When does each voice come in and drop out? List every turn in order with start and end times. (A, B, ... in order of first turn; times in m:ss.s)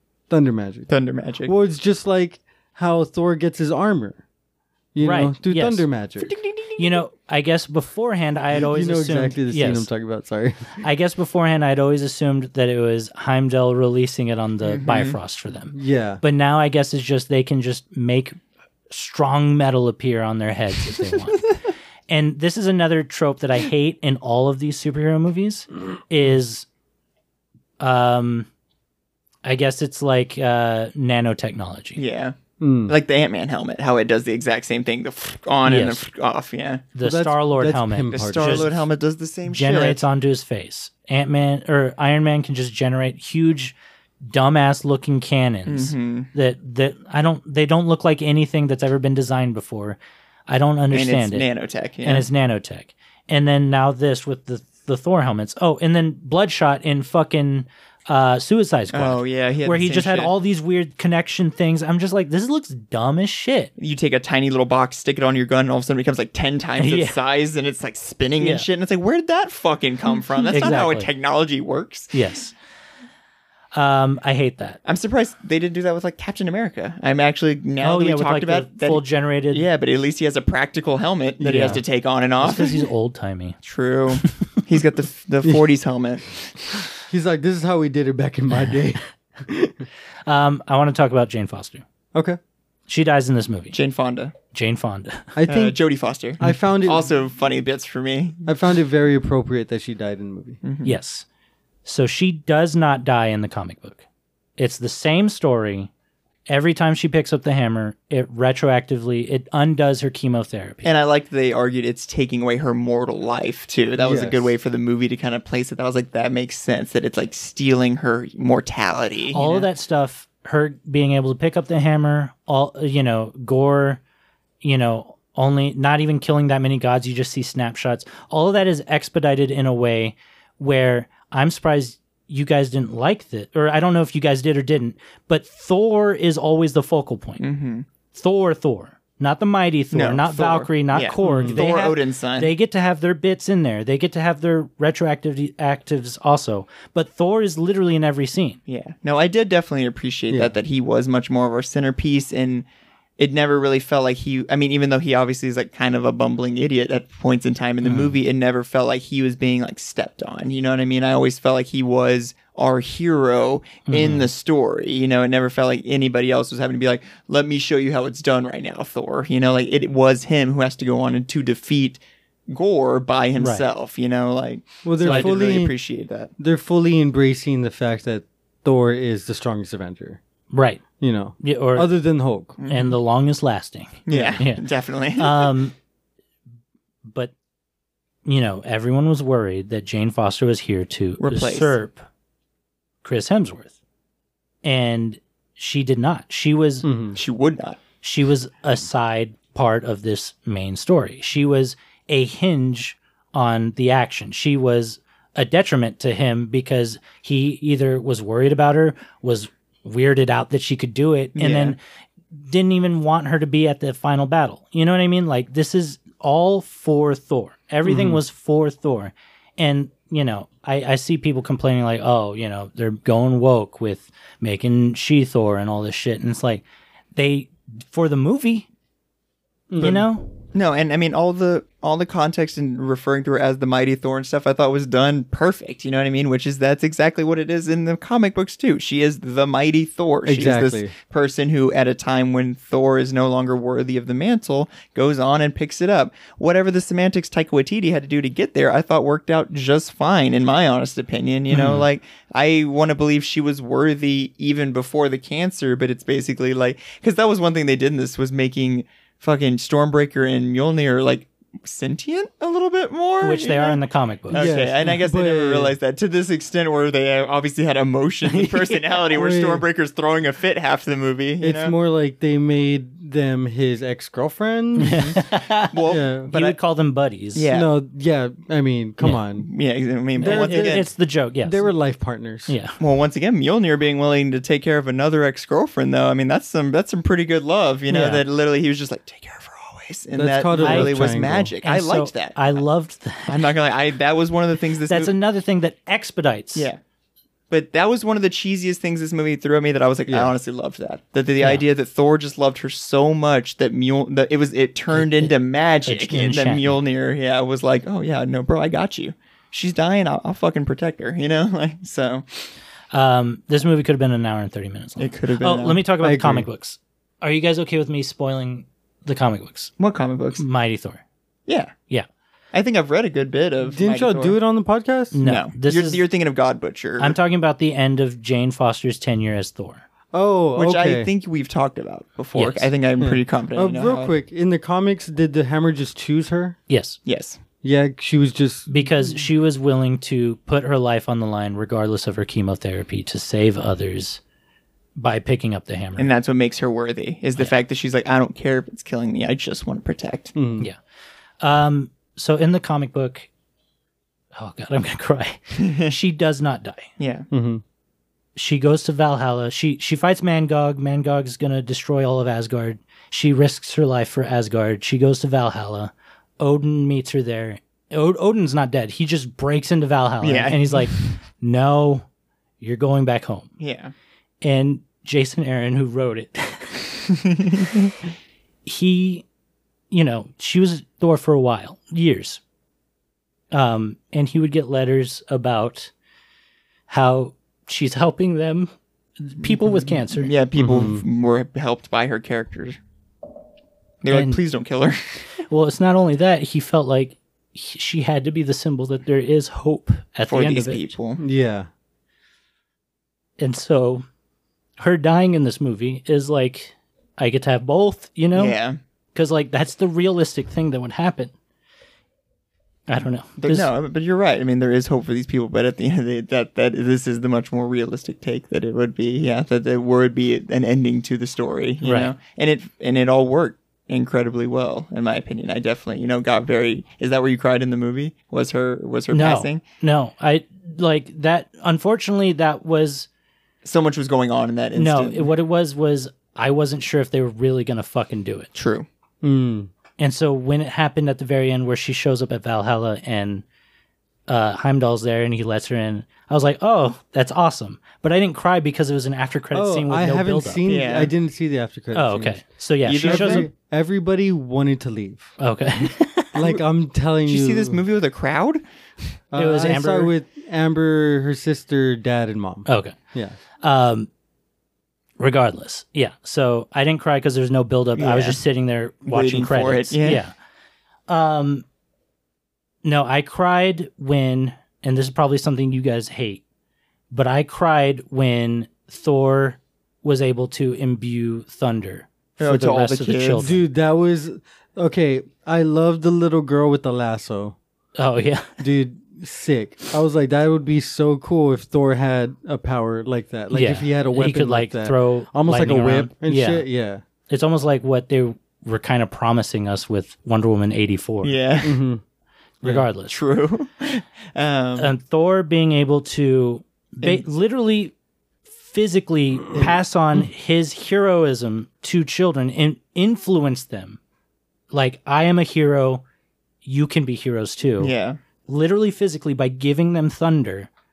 0:00.3-0:00.9 A
0:00.9-0:01.6 B
0:01.4-0:04.2 A
0:04.9-0:06.4 A
0:05.0-0:05.9 C
0:06.2-0:07.0 B
0:06.8-0:09.9 C
0:08.5-0:10.8 A
0:10.8-0:18.4 C
0:14.6-0:15.2 B
0:15.7-0:16.2 A
0:18.9-0:21.5 C
0:22.1-0:26.7 C
0:27.8-0:28.5 C
0:29.4-0:32.0 C
0:32.0-0:32.3 B
0:32.6-0:33.0 A
0:32.9-0:36.8 B
0:35.7-0:36.1 C
0:37.0-0:38.8 C
0:37.0-0:38.7 A
0:38.1-0:40.0 B
0:39.5-0:43.8 C
0:44.3-0:51.5 C
0:45.7-0:46.3 B
0:50.9-0:52.3 B
0:52.0-1:03.7 C
0:58.9-1:00.3 B
1:03.8-1:12.1 B
1:06.8-1:07.2 C
1:08.4-1:08.7 C
1:10.5-1:11.1 C
1:12.1-1:12.5 C
1:13.8-1:14.8 C
1:14.8-1:22.8 B
1:17.8-1:19.6 C
1:21.4-1:21.8 C
1:21.4-1:21.7 A
1:22.4-1:23.6 C
1:23.6-1:26.4 B
1:27.1-1:29.8 A
1:30.3-1:31.8 C
1:32.1-1:32.4 A
1:32.9-1:33.8 C
1:33.7-1:34.3 B
1:34.5-1:35.3 C
1:35.4-1:35.8 A
1:35.4-1:38.5 B
1:36.4-1:37.1 A
1:38.5-1:40.6 A
1:40.6-1:41.0 B
1:40.8-1:41.3 C
1:41.8-1:44.0 C
1:44.6-1:45.9 C
1:46.5-1:50.9 C
1:50.8-1:59.6 B
1:54.0-1:54.5 A
1:59.3-2:04.0 C
2:04.6-2:17.4 C
2:17.4-2:17.9 B
2:18.1-2:28.6 C
2:19.9-2:22.5 B
2:21.2-2:21.6 A
2:28.7-2:32.7 B
2:33.2-2:56.3 B
2:37.8-2:38.2 C
2:43.9-2:44.3 C
2:53.4-2:53.7 C
2:54.8-2:55.8 A
2:55.0-2:55.3 C
2:56.4-3:00.2 A
3:00.5-3:00.8 C
3:01.0-3:02.6 A
3:01.4-3:01.9 C
3:02.6-3:03.0 B
3:02.7-3:04.6 C
3:04.1-3:05.6 B
3:04.1-3:04.4 A
3:05.2-3:05.8 C
3:07.1-3:07.3 C
3:08.3-3:12.1 C
3:11.2-3:11.8 B
3:13.0-3:13.7 C
3:14.6-3:16.9 C
3:16.8-3:17.2 A
3:17.2-3:17.8 B
3:18.0-3:31.8 C
3:31.4-3:31.8 B
3:32.3-3:48.7 C
3:37.8-3:38.2 A
3:49.7-3:50.1 A
3:49.8-3:50.3 C
3:50.5-4:23.8 B
4:00.2-4:00.9 A
4:11.5-4:11.8 C
4:23.2-4:24.5 C
4:24.3-4:31.8 B
4:24.3-4:25.8 A
4:28.3-4:28.9 C
4:29.1-4:29.6 A
4:31.4-4:35.2 A
4:34.8-4:35.8 C
4:35.7-4:36.6 B
4:35.9-4:36.3 A
4:36.3-4:37.4 C
4:37.3-4:37.7 B
4:37.5-4:39.5 A
4:39.4-4:40.9 B
4:40.2-4:40.9 A
4:40.2-4:41.6 C
4:41.4-4:42.6 A
4:42.5-4:42.8 C
4:42.8-4:52.6 B
4:47.9-4:48.2 C
4:50.2-4:51.5 A
4:50.6-4:50.9 C
4:51.6-4:53.5 C
4:53.3-4:55.1 B
4:54.9-4:56.7 C
4:57.5-5:12.5 B
5:00.1-5:00.3 A
5:04.9-5:05.3 C
5:05.9-5:06.8 C
5:12.9-5:19.7 C
5:15.0-5:15.8 B
5:16.0-5:16.5 A
5:19.8-5:20.4 B
5:20.4-5:21.0 C
5:21.5-5:21.7 B
5:22.5-5:24.4 B
5:23.6-5:25.2 A
5:25.1-5:26.0 C
5:25.2-5:27.2 B
5:27.0-5:29.8 C
5:30.1-5:31.1 A
5:30.6-5:34.1 B
5:32.4-5:32.7 C
5:33.0-5:36.6 A
5:36.7-5:37.0 C
5:37.0-5:37.4 B
5:37.6-5:39.1 A
5:38.7-5:44.2 C
5:45.0-5:46.1 C
5:46.0-5:50.4 B
5:50.4-5:50.7 A
5:51.4-5:53.3 C
5:54.4-5:56.9 C
5:55.6-5:55.9 B
5:57.0-5:57.3 B
5:57.3-5:57.6 A
5:58.4-6:12.1 C
6:10.2-6:11.1 B
6:12.6-6:13.5 C
6:13.6-6:13.9 B
6:14.4-6:16.8 C
6:17.6-6:17.9 B
6:18.6-6:19.2 C
6:19.9-6:22.4 C
6:23.5-6:25.9 C
6:26.9-6:30.3 C
6:29.4-6:32.8 B
6:30.6-6:31.0 A
6:34.0-6:35.2 B
6:34.1-6:34.4 C
6:35.5-6:41.0 C
6:40.3-6:41.2 B
6:41.2-6:41.7 A
6:43.4-6:44.0 C
6:44.8-6:48.6 C
6:48.4-6:48.8 B
6:49.2-6:51.3 C
6:52.9-6:53.7 C
6:53.4-7:09.6 B
7:01.8-7:02.1 C
7:09.1-7:13.1 C
7:13.6-7:15.3 B
7:14.8-7:18.5 C
7:18.6-7:18.9 B
7:19.2-7:19.7 A
7:20.0-7:23.4 C
7:24.3-7:30.6 C
7:29.5-7:32.4 A
7:30.7-7:31.1 B
7:31.9-7:33.5 C
7:32.9-7:33.5 B
7:33.0-7:35.4 A
7:35.4-7:36.4 C
7:36.3-7:37.8 A
7:37.3-7:38.6 B
7:39.3-7:43.4 A
7:39.4-7:40.1 C
7:42.7-7:43.0 C
7:43.6-7:44.1 C
7:45.2-7:50.3 C
7:48.0-7:48.4 B
7:49.1-7:50.2 B
7:51.1-7:51.6 C
7:52.8-7:56.4 C
7:57.1-8:03.6 C
8:02.4-8:03.6 B
8:03.4-8:07.6 A
8:08.0-8:08.6 C
8:08.6-8:17.0 A
8:13.5-8:16.6 C
8:17.3-8:21.4 C
8:21.2-8:21.8 B
8:21.6-8:22.0 A
8:22.6-8:23.2 C
8:23.1-8:24.9 B
8:24.8-8:27.9 C
8:28.6-8:34.0 C
8:34.7-8:36.0 C
8:36.6-8:37.9 C
8:37.8-8:38.2 B
8:38.5-8:40.7 C